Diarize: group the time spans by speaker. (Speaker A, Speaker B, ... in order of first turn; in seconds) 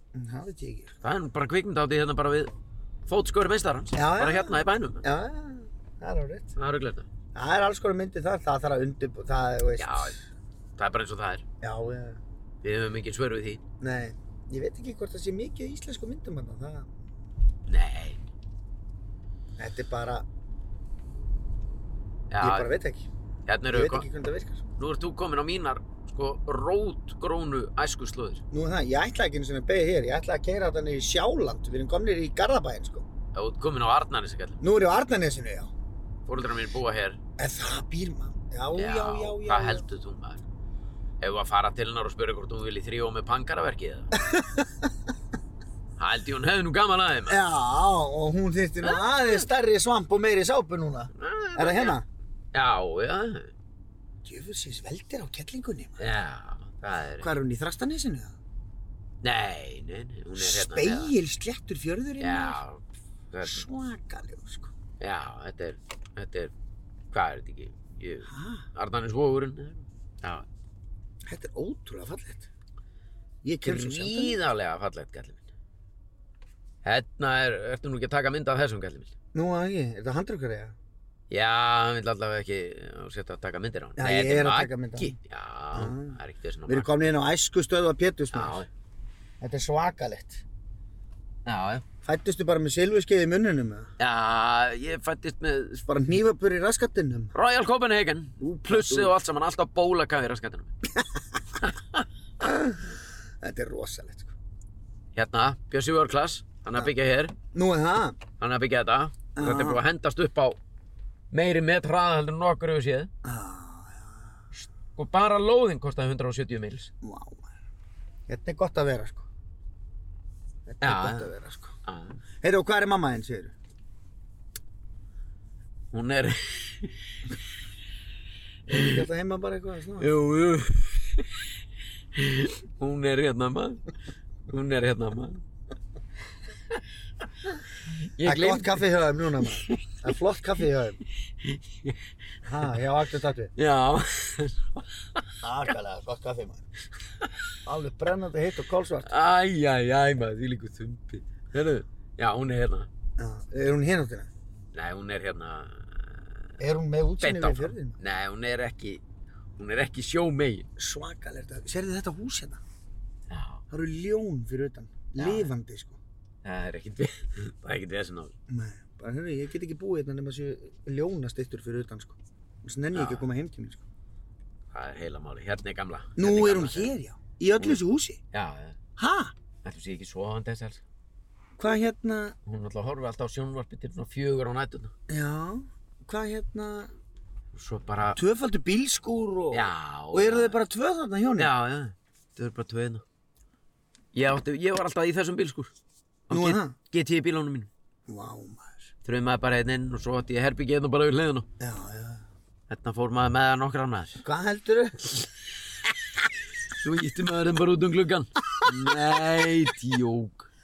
Speaker A: 0.1-1.0, 3.9-6.5, 7.3-10.2, 11.6-12.2, 13.8-16.9, 19.6-20.2, 22.4-23.1, 23.7-24.6, 28.5-33.0, 34.6-35.7, 37.4-39.8, 44.1-44.9, 47.3-52.0, 54.2-56.0, 57.2-58.4, 60.4-62.6, 63.5-64.7, 68.3-68.7, 71.3-72.5, 73.4-74.4, 79.3-80.8, 84.0-85.2, 85.7-88.6, 89.4-90.4, 92.0-93.9, 95.8-97.3, 98.4-99.1, 102.4-104.3, 107.5-108.2, 109.4-109.8, 113.2-114.3, 117.0-117.5, 118.3-119.3, 120.7-121.8, 122.4-123.5, 128.7-130.1, 138.2-141.0, 142.4-143.5, 145.4-146.6, 147.7-149.1, 153.2-154.3, 156.6-158.0, 160.8-162.6, 163.7-166.0, 168.5-173.8, 176.2-178.2, 179.0-179.3, 181.6-182.4, 185.1-186.9, 188.1-191.5, 196.3-196.8, 198.1-198.9, 201.6-202.2, 204.2-205.0
Speaker B: 1.0-2.5, 3.1-5.0, 6.6-7.1, 9.8-10.2, 10.8-11.4, 12.6-13.6, 17.7-18.2, 22.3-22.7, 23.5-24.1, 24.8-28.4, 33.3-34.6, 36.3-37.2, 38.8-40.4, 41.2-44.1, 46.0-47.4, 48.8-49.4, 51.1-52.0, 52.5-53.5, 56.0-57.3, 59.2-61.1, 62.2-63.7, 65.0-66.5, 67.1-70.5, 73.6-75.4, 76.8-79.1, 81.3-86.9, 88.3-88.7, 91.5-91.8, 94.0-95.8, 97.3-100.7, 101.6-102.0, 105.2-107.3, 108.4-110.6, 111.3-113.1, 115.0-116.9, 120.8-121.3, 121.8-122.2, 125.9-127.2, 130.0-131.5, 132.2-133.8, 134.5-135.4, 138.0-138.8, 141.5-142.0, 143.6-145.2, 149.1-152.9, 154.7-156.3, 157.2-159.0, 159.6-160.7, 163.3-163.6, 165.2-165.5, 166.4-168.3, 172.9-173.3, 174.7-176.9, 178.3-178.8, 179.6-180.8, 182.5-184.9, 187.5-188.2, 189.5-190.6, 191.4-193.0, 194.1-195.7, 196.3-197.7, 199.0-201.5, 202.7-204.2, 206.8-210.5